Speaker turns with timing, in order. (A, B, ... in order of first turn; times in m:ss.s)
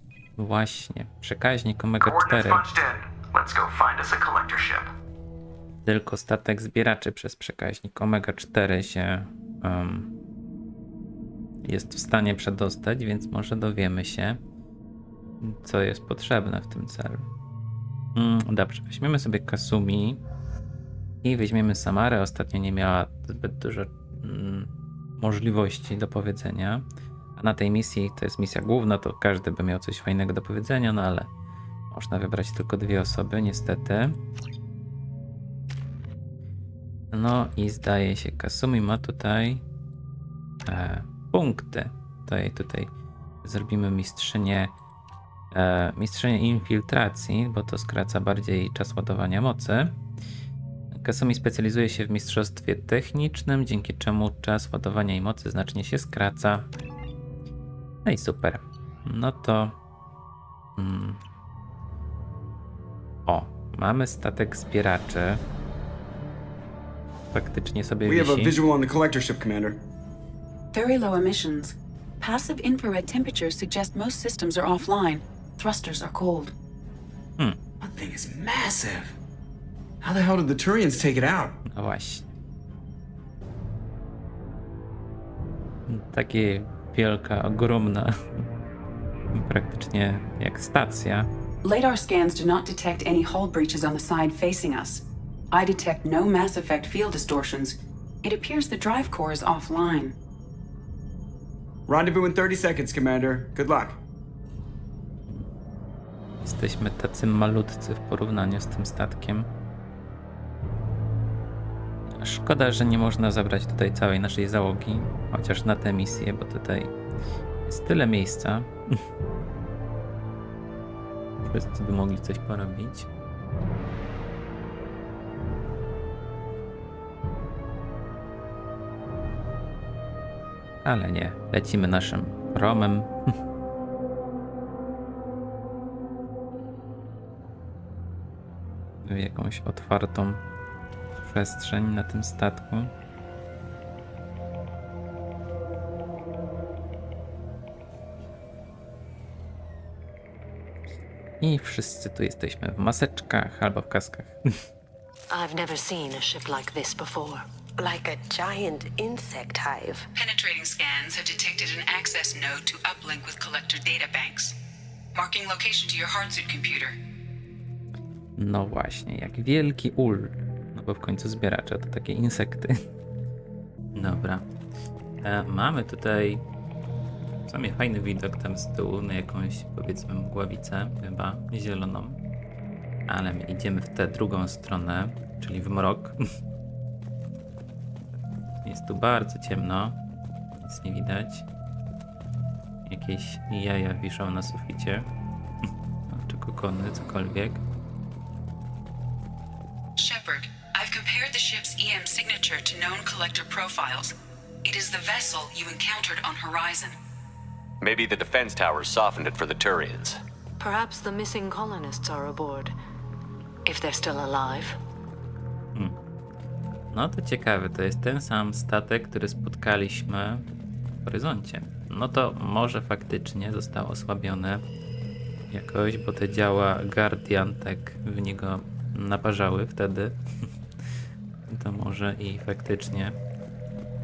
0:00.4-0:02.6 A
0:02.0-0:04.9 B
0:05.8-0:10.1 A
0:11.6-0:14.4 A
0:15.4-0:17.3 A
0:18.2-0:20.2 A
0:21.2-0:26.8 A
0:27.4-0:31.3 A
0:31.9-0:34.2 A
0:37.1-0:39.6 A
0:40.7-0:42.9 A
0:43.4-0:44.7 A
0:45.5-0:50.0 A
0:50.9-0:56.7 A
0:58.0-0:59.8 A
1:00.8-1:01.2 A
1:03.3-1:05.4 A
1:07.3-1:08.6 A
1:08.0-1:09.8 C
1:10.7-1:16.5 D
1:17.8-1:19.2 C
1:20.0-1:21.6 C
1:21.7-1:22.3 A
1:25.9-1:28.4 A
1:29.3-1:31.3 A
1:31.6-1:40.2 D
1:41.9-1:44.0 C
1:46.4-1:49.5 A
1:52.2-1:56.9 A
1:57.7-1:59.0 A
2:01.5-2:03.1 A
2:10.8-2:13.4 A
2:19.0-2:20.4 A
2:21.2-2:22.9 A
2:31.4-2:34.6 A
2:35.3-2:37.4 E
2:37.8-2:40.1 F
2:40.2-2:44.6 D
2:45.1-2:47.0 D
2:48.4-2:52.8 A
2:54.0-2:54.5 A
2:55.2-2:56.4 A
2:57.5-3:02.2 A
3:03.1-3:06.2 A
3:08.6-3:10.0 A
3:10.6-3:11.4 A
3:12.9-3:15.1 A
3:16.1-3:17.6 A
3:20.0-3:27.0 D
3:27.8-3:30.2 G
3:30.6-3:32.7 E
3:33.6-3:34.8 E
3:36.9-3:40.4 A
3:41.0-3:44.6 A
3:45.5-3:50.2 A
3:51.5-3:53.2 A